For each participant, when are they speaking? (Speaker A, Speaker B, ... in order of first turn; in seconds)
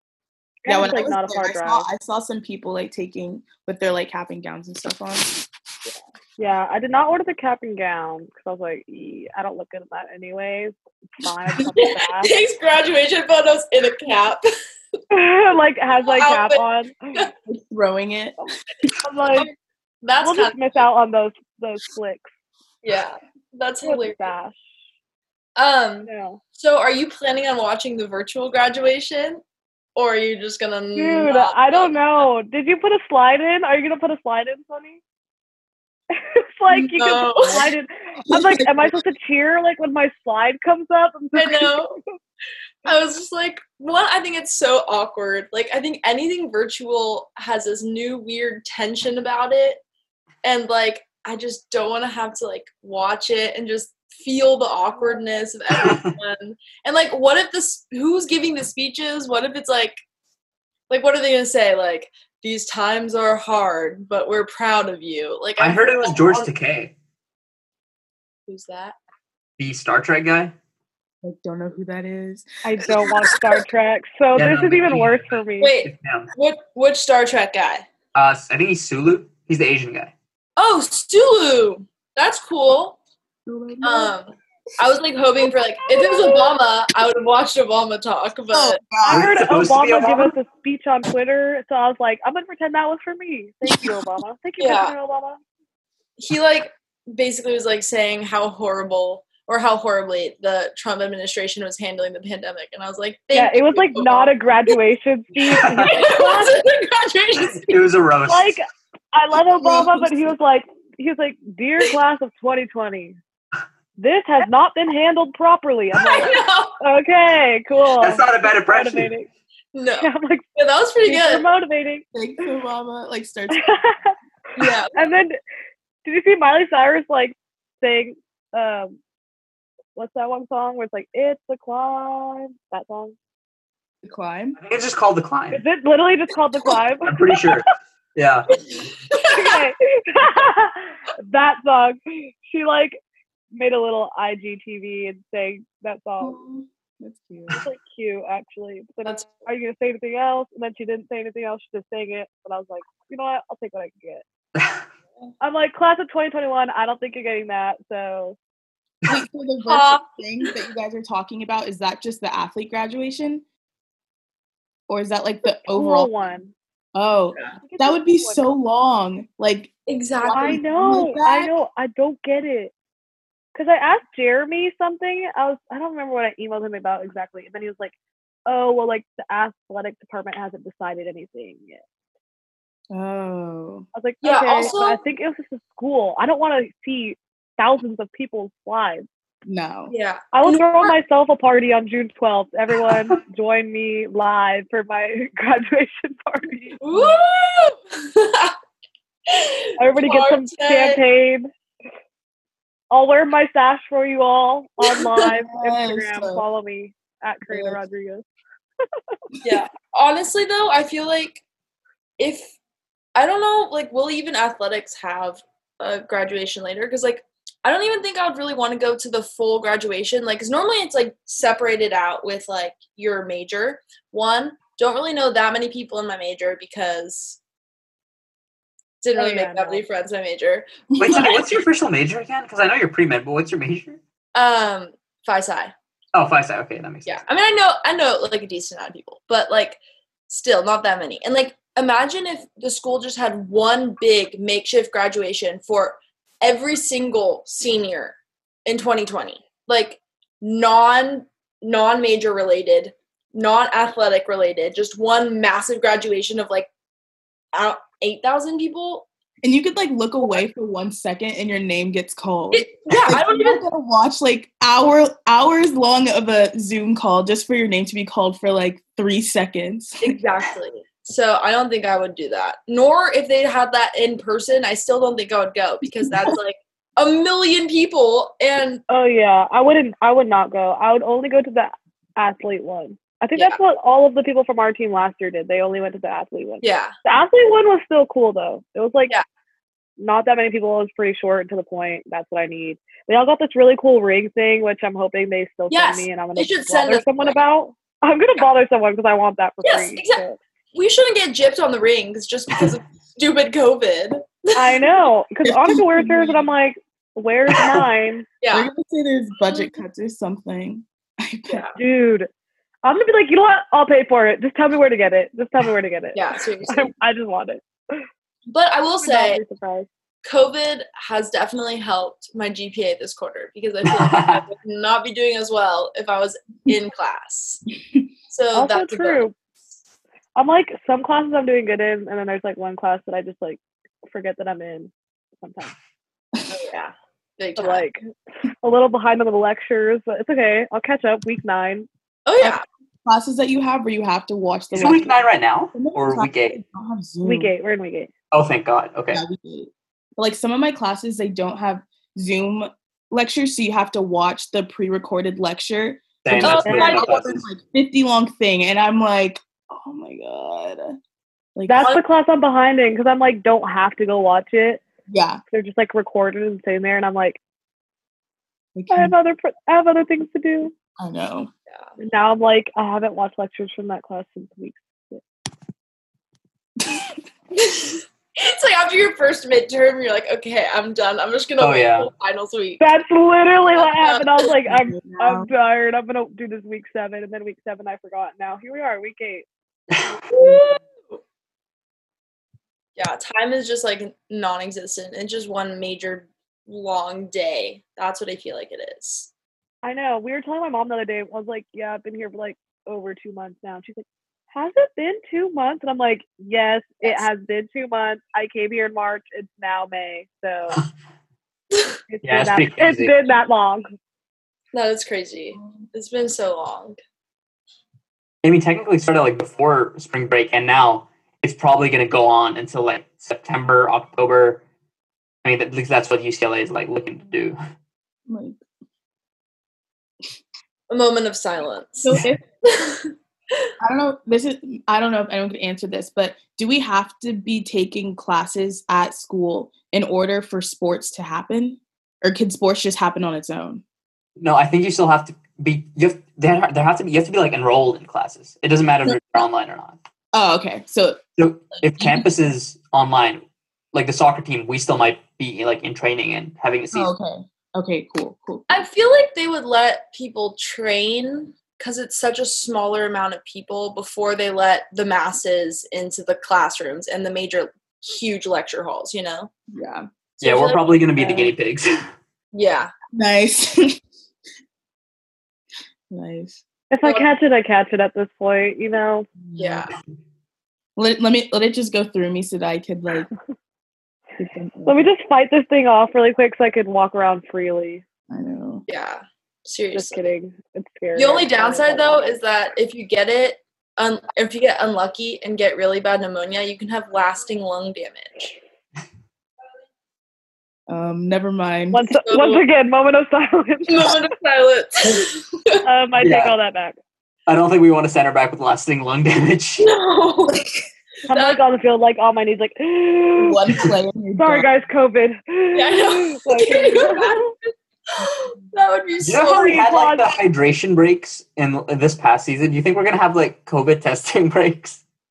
Speaker A: 0.6-1.9, 6.4-12.3, 15.1-17.2, 19.0-19.5, 20.2-22.3, 23.8-24.6, 26.0-26.4, 30.9-35.0, 36.1-41.9, 72.6-75.7, 89.0-95.4, 103.3-106.6, 108.3-113.2, 114.0-119.3, 120.0-120.4, 121.0-122.0, 123.5-124.1, 124.9-125.4, 126.0-129.0, 129.9-133.1, 135.5-137.5, 139.2-143.0, 143.5-146.4, 147.5-154.2, 155.4-158.4, 165.7-166.5, 167.6-168.5, 170.3-172.7, 173.5-177.9, 178.4-181.8, 183.9-189.1, 190.3-196.8, 199.8-201.5, 202.9-208.2, 229.1-229.8, 278.9-289.1, 290.0-300.4, 304.5-308.3, 311.8-312.3, 312.8-318.0, 319.0-319.9, 328.5-329.3, 330.4-335.7, 337.6-338.0, 338.6-341.9, 347.2-348.1, 356.7-356.9, 361.7-364.8, 365.5-367.4, 368.9-370.7, 372.0-375.2, 382.8-389.4, 399.8-410.8, 412.1-413.9, 476.9-479.3, 484.9-488.0, 489.9-492.3, 501.9-504.2, 505.8-507.0, 511.3-513.6, 514.4-517.5, 519.5-520.3
Speaker B: 0.7-5.4, 17.4-18.9, 38.2-39.0, 71.2-73.1, 83.5-84.1, 88.5-89.4, 109.5-110.3, 122.1-123.7, 134.0-134.6, 146.2-147.6, 159.1-163.4, 164.9-166.1, 166.9-171.5, 182.9-183.8, 189.4-189.9, 205.2-206.4, 207.5-207.8, 230.9-231.3, 259.4-270.2, 276.0-276.4, 305.4-306.4, 308.5-311.6, 343.0-345.1, 345.7-347.5, 349.1-360.9, 361.6-361.9, 365.1-365.4, 368.7-369.1, 371.0-371.5, 376.8-377.1, 384.6-385.5, 428.3-428.6, 432.0-432.4, 433.8-443.8, 450.3-451.2, 452.0-452.3, 456.9-458.8, 469.7-470.1, 473.1-474.0, 476.1-476.6, 479.4-479.9, 481.0-483.3, 484.4-485.1, 488.3-488.8, 500.9-502.1, 513.4-514.7
Speaker C: 11.8-14.5, 16.0-16.6, 19.4-20.6, 22.8-24.3, 25.6-29.4, 29.9-32.2, 36.7-37.7, 41.3-42.0, 42.8-49.8, 50.4-60.0, 60.9-66.5, 68.5-69.0, 75.6-77.8, 80.6-83.0, 83.8-88.8, 94.6-94.9, 96.2-104.7, 105.8-107.8, 116.0-116.8, 119.7-121.4, 124.5-125.0, 139.1-139.6, 149.1-149.4, 159.7-160.4, 169.9-170.6, 184.2-185.0, 189.9-190.9, 196.8-198.5, 199.3-201.0, 204.9-205.2, 209.4-211.4, 212.2-212.5, 213.1-227.4, 229.0-231.4, 234.3-235.7, 237.1-256.7, 257.5-259.1, 262.5-263.6, 270.0-278.8, 286.6-286.9, 295.7-297.4, 299.6-304.8, 308.4-308.7, 311.5-311.8, 316.1-316.9, 318.5-319.4, 320.2-327.6, 328.3-329.2, 336.5-337.8, 342.2-342.6, 356.3-357.2, 377.5-382.8, 383.8-384.5, 390.3-391.2, 393.0-399.3, 414.7-417.0, 430.9-433.7, 458.7-469.5, 470.4-471.5, 472.5-472.9, 479.6-479.9, 488.9-490.2, 491.1-498.6, 502.1-502.6, 503.9-505.8, 509.8-510.6, 511.3-511.6, 515.7-519.9
Speaker D: 55.8-56.1, 65.6-66.9, 69.6-70.5, 74.3-76.3, 78.1-80.1, 89.1-90.3, 105.5-105.9, 107.4-108.6, 118.0-119.1, 134.6-135.6, 137.0-138.5, 231.0-234.0, 236.1-237.2, 323.8-324.4, 344.7-346.6, 348.3-349.2, 356.2-357.4, 381.6-382.1, 412.2-413.1, 418.4-424.6, 425.4-427.6, 444.4-450.0, 451.4-457.1, 470.4-472.1, 506.2-506.5, 507.5-509.9, 519.2-525.0